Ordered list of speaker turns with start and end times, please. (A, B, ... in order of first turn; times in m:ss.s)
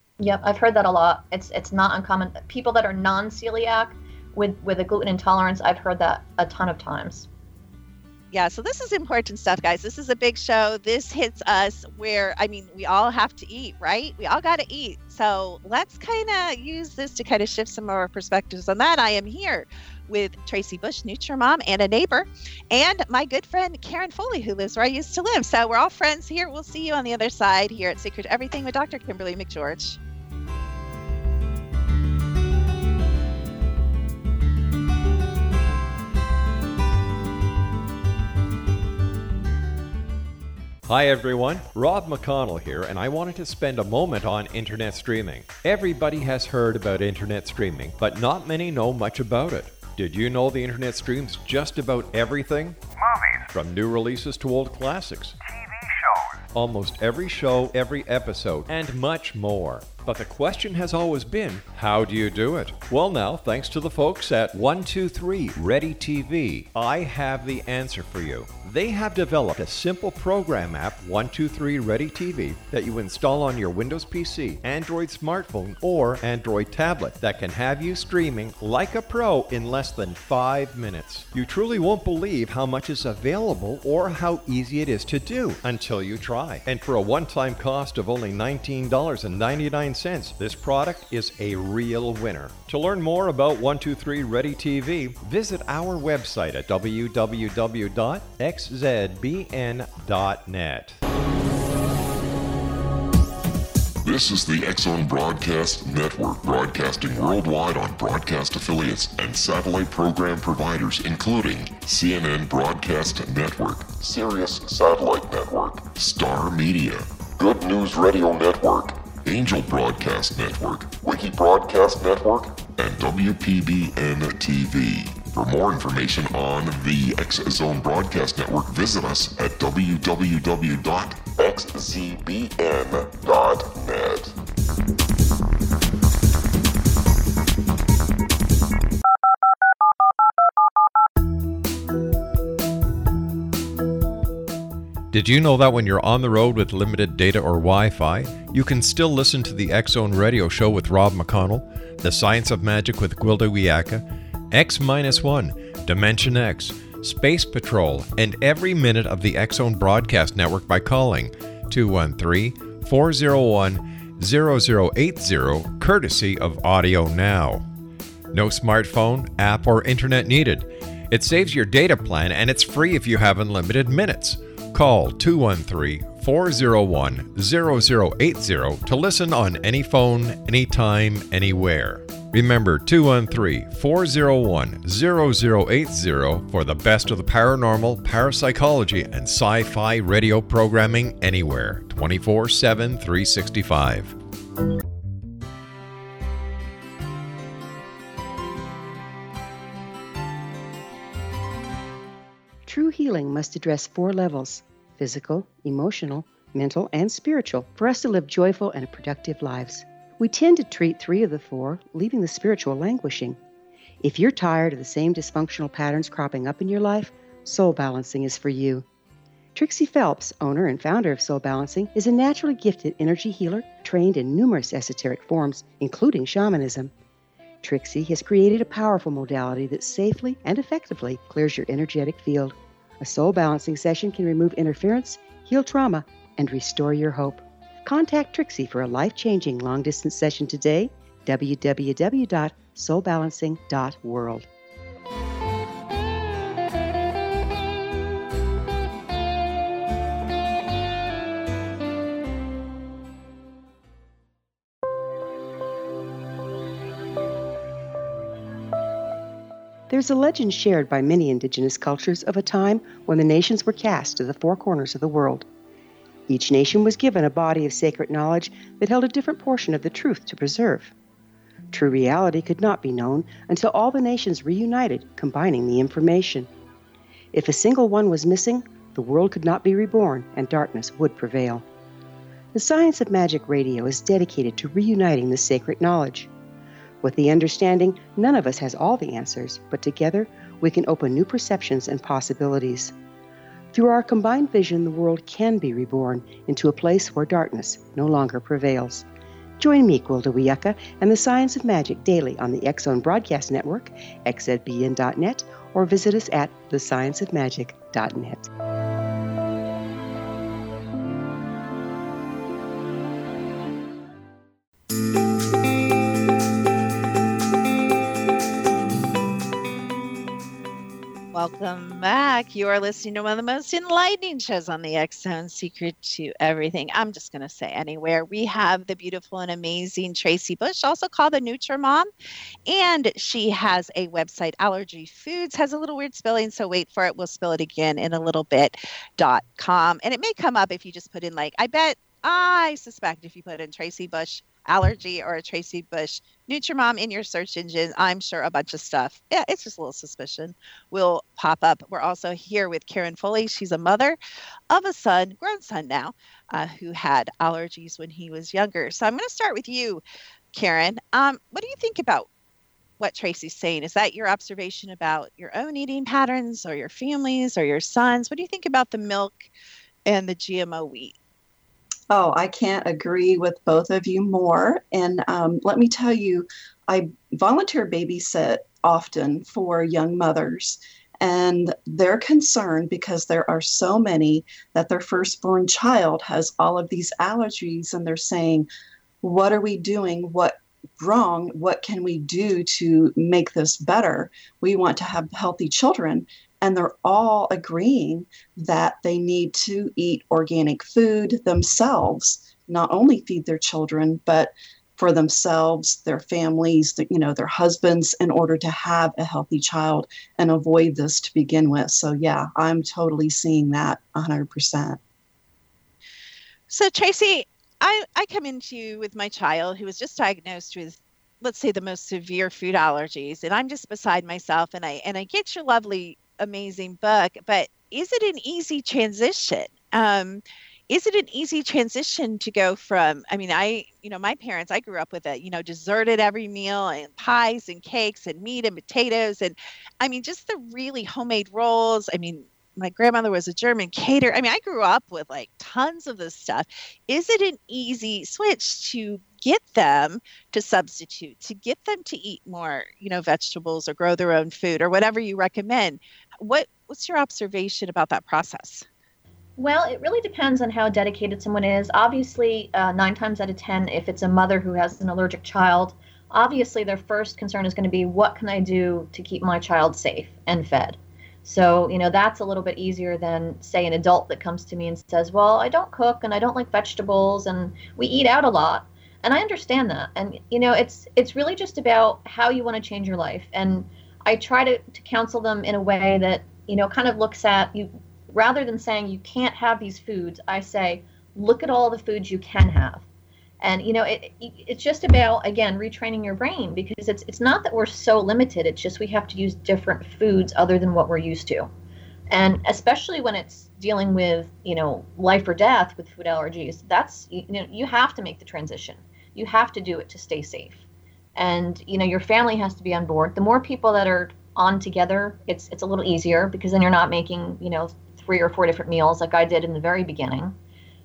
0:00.2-0:07.3 A
0:08.3-0:30.0 B
0:40.8-0:52.8 C
0:53.5-0:55.4 C
0:56.5-1:41.0 C
1:44.0-2:14.3 D
2:25.1-2:25.4 E
2:25.3-2:28.4 C
2:28.3-2:34.0 E
2:33.6-2:33.9 C
2:34.5-2:37.3 E
2:34.6-2:35.5 C
2:36.4-2:38.8 C
2:38.2-2:47.6 E
2:43.1-2:43.7 C
2:44.3-2:45.3 C
2:46.6-2:46.9 C
2:48.3-3:02.7 E
2:49.6-2:50.0 C
2:56.5-2:56.9 C
3:02.3-3:08.1 C
3:06.6-3:07.4 E
3:08.0-3:14.1 E
3:22.6-3:33.4 F
3:34.0-3:38.8 F
3:39.5-3:46.9 F
3:47.6-4:04.5 F
4:19.9-4:25.5 F
4:26.3-4:30.9 F
4:31.7-4:36.5 F
4:37.3-4:41.6 F
4:42.5-4:46.3 F
4:47.0-4:52.9 F
4:53.7-4:59.1 F
4:59.6-5:08.5 F
5:21.3-5:32.1 B
5:32.7-5:54.2 B
5:54.7-6:00.0 B
6:00.5-6:02.3 B
6:03.0-6:09.4 B
6:10.0-6:11.1 B
6:12.1-6:28.7 G
6:29.2-6:55.0 G
6:56.7-7:38.8 B
7:39.6-8:13.0 A
8:13.6-8:21.7 A
8:22.3-8:30.8 A
8:31.4-8:40.6 A